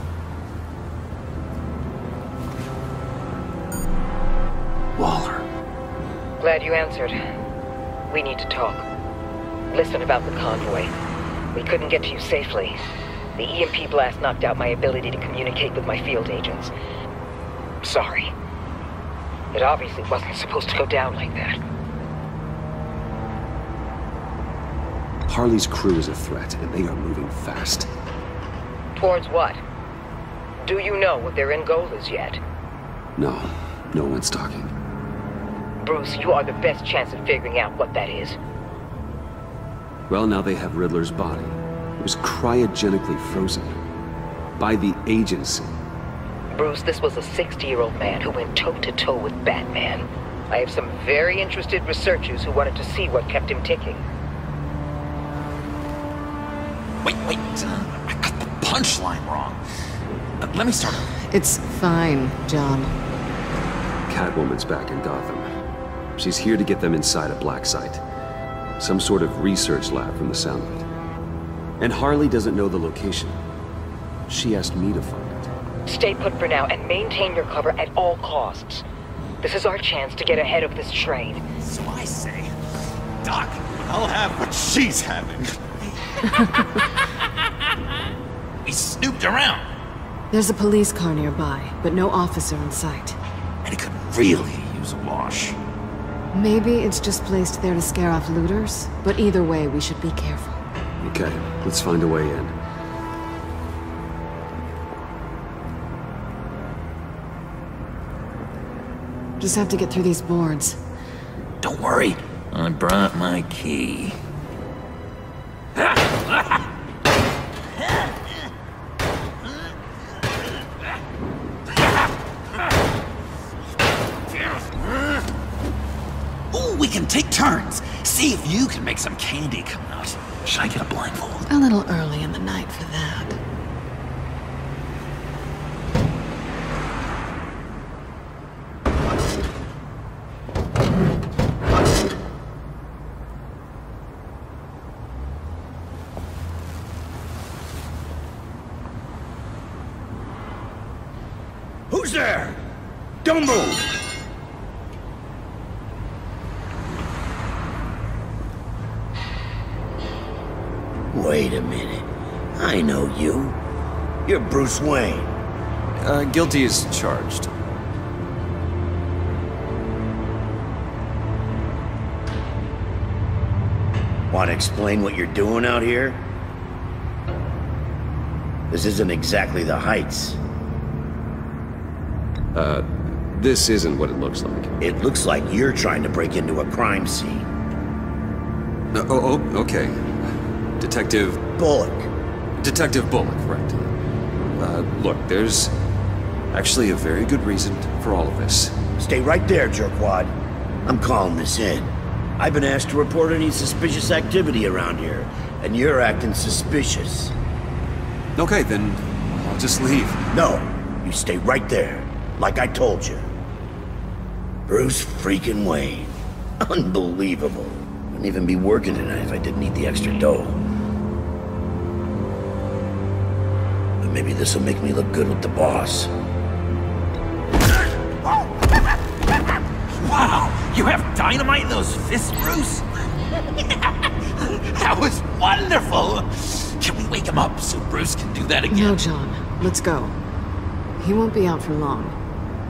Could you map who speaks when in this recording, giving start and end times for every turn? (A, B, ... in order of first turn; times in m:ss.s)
0:05.0-0:05.4 A
0:06.4-0:07.2 B
0:08.1-0:08.9 B
0:09.7-0:10.9 B
0:11.5-0:12.8 B
0:13.4-0:16.7 B
0:17.8-0:18.3 B
0:19.5-0:21.6 B
0:25.3-0:27.9 A
0:29.0-0:29.6 B
0:30.7-0:32.4 B
0:33.2-0:34.7 A
0:35.8-0:38.4 B
0:40.1-0:43.8 A
0:44.6-0:45.7 A
0:46.6-0:54.0 B
0:57.0-0:59.6 C
1:00.4-1:01.1 C
1:01.2-1:02.9 D
1:04.1-1:05.5 A
1:06.2-1:08.0 A
1:08.8-1:10.9 A
1:11.8-1:13.4 A
1:14.3-1:15.5 A
1:15.9-1:18.8 B
1:19.4-1:21.4 B
1:21.6-1:22.5 C
1:23.2-1:25.5 C
1:26.2-1:26.8 D
1:26.5-1:26.9 C
1:28.6-1:29.6 C
1:30.3-1:33.2 D
1:33.6-1:35.6 C
1:36.3-1:40.6 D
1:41.0-1:42.5 A
1:49.4-1:50.8 D
1:51.6-1:54.2 C
2:06.5-2:11.4 C
2:11.5-2:13.4 D
2:31.9-2:32.6 E
2:33.2-2:33.9 E
2:41.1-2:43.6 E
2:44.3-2:45.3 E
2:46.0-2:47.6 A
2:54.3-2:56.2 E
2:58.7-3:00.4 E
3:02.5-3:04.8 A
3:04.8-3:07.5 E
3:08.9-3:11.5 A
3:11.6-3:12.1 E
3:12.6-3:13.9 A
3:14.6-3:15.8 A
3:16.5-3:18.8 A
3:19.0-3:20.4 E
3:20.9-3:27.3 E
3:28.4-3:30.2 A
3:30.3-3:33.3 E
3:34.7-3:40.6 E
3:44.0-3:46.1 E
3:50.0-3:59.0 C
3:58.7-4:00.2 D
4:01.0-4:02.2 D